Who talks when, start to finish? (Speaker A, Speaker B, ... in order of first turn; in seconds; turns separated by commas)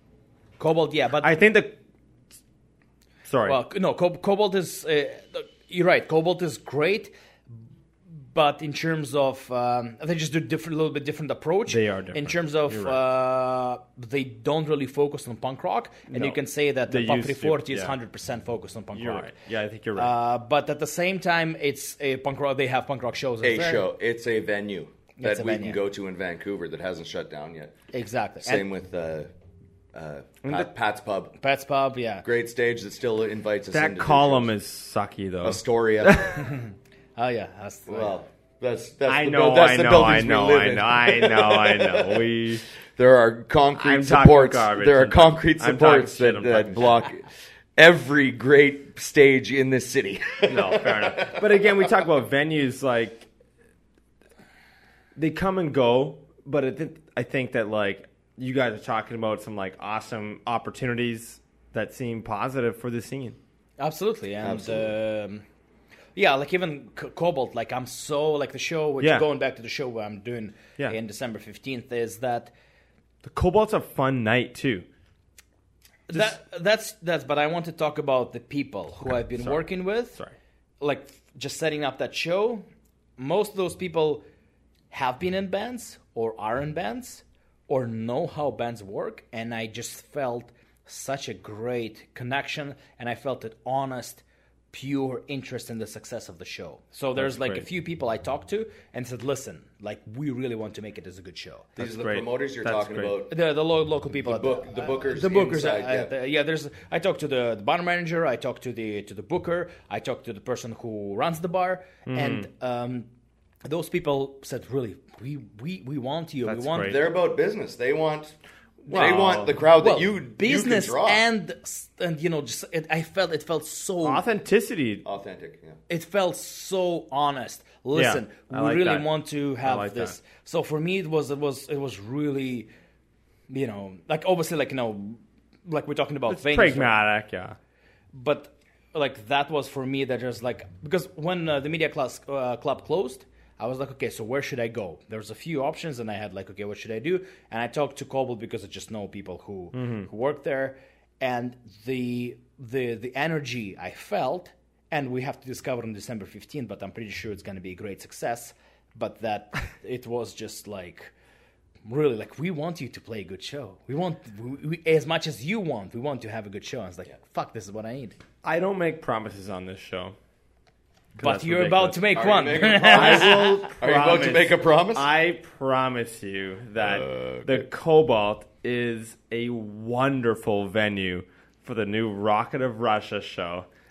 Speaker A: 0.6-1.4, Speaker B: 1.2-1.7, Speaker B: 3.2-3.6, Speaker A: 3.5-7.1, Speaker A: 8.3-19.3, Speaker B: 11.7-13.0, Speaker B: 16.1-17.9, Speaker B: 18.9-20.1, Speaker A: 20.0-23.8, Speaker C: 23.4-27.7, Speaker A: 25.2-25.8, Speaker A: 27.9-28.6, Speaker C: 28.4-29.3, Speaker C: 29.9-31.3, Speaker A: 31.4-32.2, Speaker C: 32.2-34.5, Speaker B: 33.7-36.4, Speaker C: 35.4-36.4, Speaker A: 36.4-38.1, Speaker C: 37.9-42.2, Speaker B: 39.1-42.6, Speaker C: 43.0-52.0, Speaker B: 43.8-47.0, Speaker B: 50.5-53.3, Speaker B: 55.1-63.4, Speaker A: 63.8-65.4, Speaker C: 64.4-64.9, Speaker A: 66.2-72.5, Speaker B: 69.0-69.2, Speaker B: 73.2-74.8, Speaker A: 76.1-80.2, Speaker A: 80.8-82.6, Speaker A: 83.2-84.2, Speaker A: 84.9-101.7, Speaker B: 97.2-97.6, Speaker B: 101.8-103.1, Speaker C: 101.8-103.3, Speaker A: 103.3-113.1, Speaker C: 104.2-106.1, Speaker B: 112.1-112.5, Speaker A: 113.6-117.0, Speaker B: 116.5-117.0, Speaker C: 116.8-118.3, Speaker B: 118.8-119.6, Speaker C: 118.9-121.2, Speaker A: 119.8-124.2, Speaker B: 124.0-125.0, Speaker C: 125.0-125.8, Speaker A: 125.9-132.7, Speaker B: 127.9-129.1, Speaker B: 129.6-130.2, Speaker A: 133.5-136.9, Speaker B: 136.3-137.6, Speaker A: 138.1-161.1, Speaker B: 149.7-150.1, Speaker A: 161.8-168.1, Speaker B: 168.4-170.1, Speaker B: 171.2-172.0, Speaker A: 171.2-173.6, Speaker C: 172.1-175.1, Speaker B: 172.9-183.7, Speaker C: 176.8-177.7